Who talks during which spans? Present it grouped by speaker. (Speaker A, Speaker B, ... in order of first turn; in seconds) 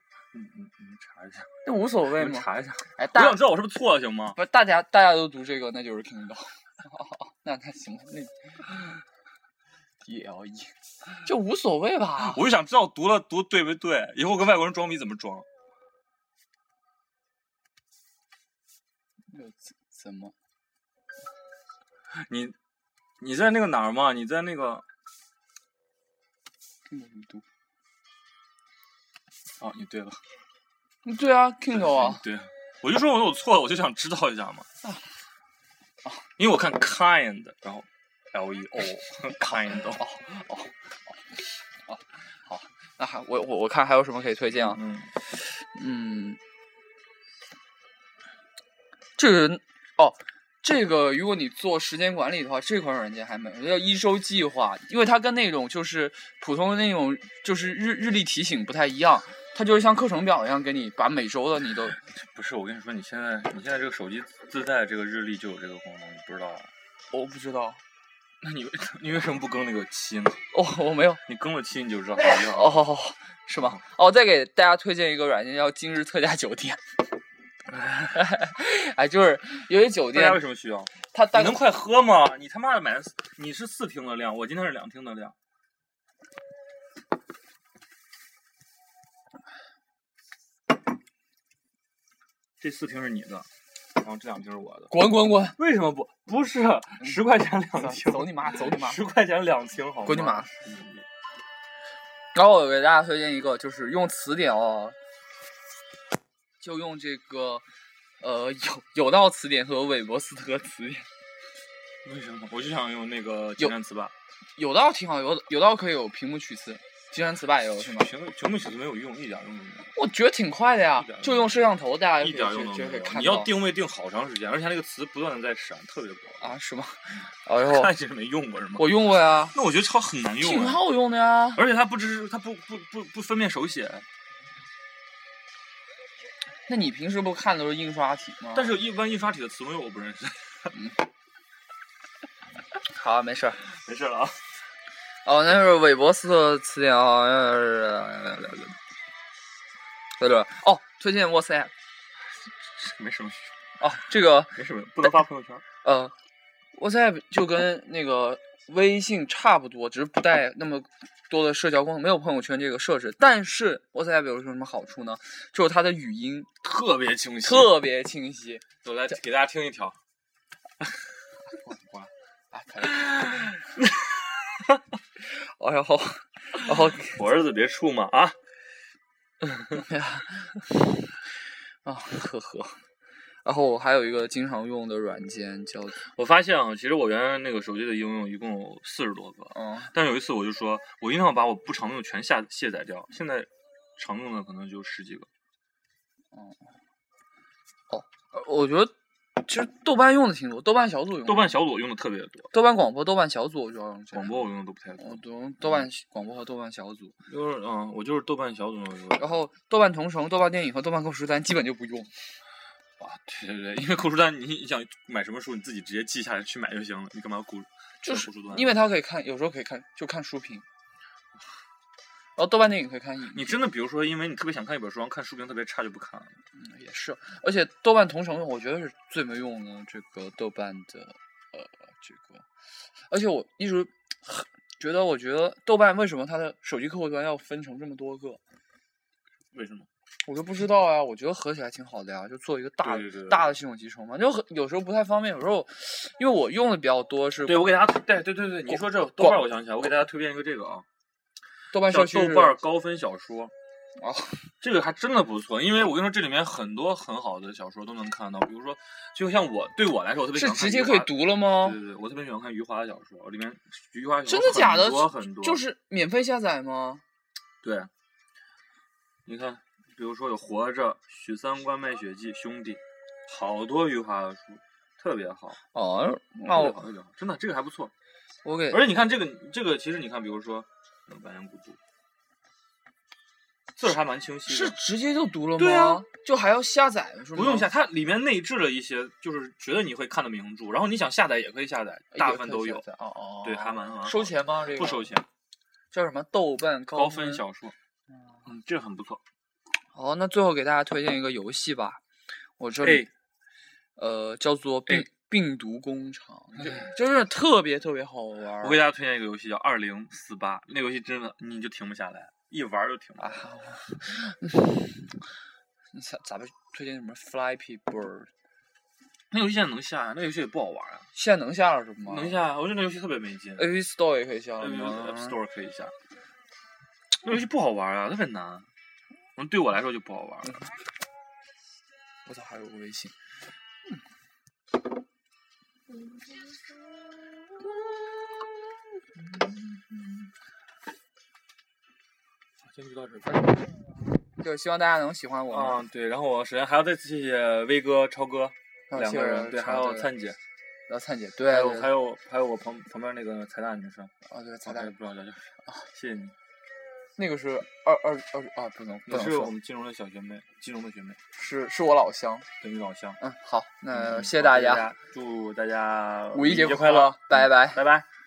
Speaker A: 0.3-1.5, 2.1-4.4, 12.2-15.5, 22.1-22.6, 23.2-24.9, 29.6-30.2, 31.7-34.7, 36.4-40.0, 44.5-45.1, 62.1-66.7, 68.4-70.4, 71.3-72.9, 80.1-85.3, 92.6-94.9, 95.6-101.1, 112.0-114.1, 117.8-119.9, 121.0-121.7, 122.2-126.5, 127.6-129.0, 129.5-130.8, 131.6-134.1, 138.6-140.7, 143.8-144.4, 152.8-153.6, 154.6-155.6, 166.6-167.7, 168.8-170.0, 171.7-172.1, 172.9-174.8, 177.1-178.4, 179.4-179.8, 186.0-195.3, 201.3-202.5, 204.1-205.9, 207.3-209.3, 213.0-218.8, 223.3-226.4, 239.5-239.9, 242.8-243.5, 247.4-250.9, 251.9-253.5, 254.6-265.6, 267.6-267.9, 269.3-275.6, 276.5-277.9, 278.7-281.8, 283.8-284.8, 285.6-286.1, 287.4-292.9, 293.4-295.3, 296.9-297.8, 298.5-299.2, 302.8-303.1, 306.6-306.9, 308.6-313.5, 319.3-321.1, 322.1-323.7, 324.6-325.9, 327.2-328.7, 329.4-330.6, 339.3-340.0, 342.6-343.9, 345.5-350.4, 351.5-354.1, 354.6-356.4, 359.1-361.2, 362.6-363.2, 363.9-368.1
Speaker B: 1.6-3.4, 4.3-8.3, 10.0-12.4, 19.3-20.3, 26.9-27.4, 31.0-32.2, 39.9-41.2, 41.9-44.8, 45.6-46.4, 49.2-62.0, 67.1-67.8, 70.5-71.2, 72.2-76.8, 78.0-80.4, 81.0-81.7, 94.9-95.6, 97.7-99.0, 100.0-100.5, 102.3-105.0, 106.6-107.7, 108.2-111.1, 114.6-118.1, 120.0-123.5, 126.4-127.9, 128.8-129.6, 130.4-131.6, 136.7-138.8, 142.9-143.6, 145.2-148.8, 150.2-151.7, 153.8-155.2, 155.8-156.1, 156.8-166.5, 167.4-168.6, 172.5-173.6, 175.3-177.2, 179.7-181.0, 181.8-182.8, 183.4-186.0, 189.5-189.9, 196.3-196.6, 197.9-201.6, 202.5-204.5, 205.0-207.2, 209.2-212.1, 218.0-220.7, 222.4-223.6, 226.6-232.4, 233.1-238.4, 240.3-247.8, 248.8-249.4, 251.7-252.6, 254.0-254.4, 260.4-261.8, 264.3-267.0, 275.7-276.9, 278.4-278.8, 284.5-287.7, 292.1-295.1, 295.9-297.4, 299.9-302.0, 302.6-303.1, 304.0-308.8, 313.2-315.1, 315.9-318.3, 321.1-322.4, 323.6-325.4, 332.3-333.1, 344.4-345.8, 348.9-350.1, 350.9-351.9, 354.3-354.9, 357.2-359.5, 361.4-362.5, 363.2-364.9, 366.3-367.8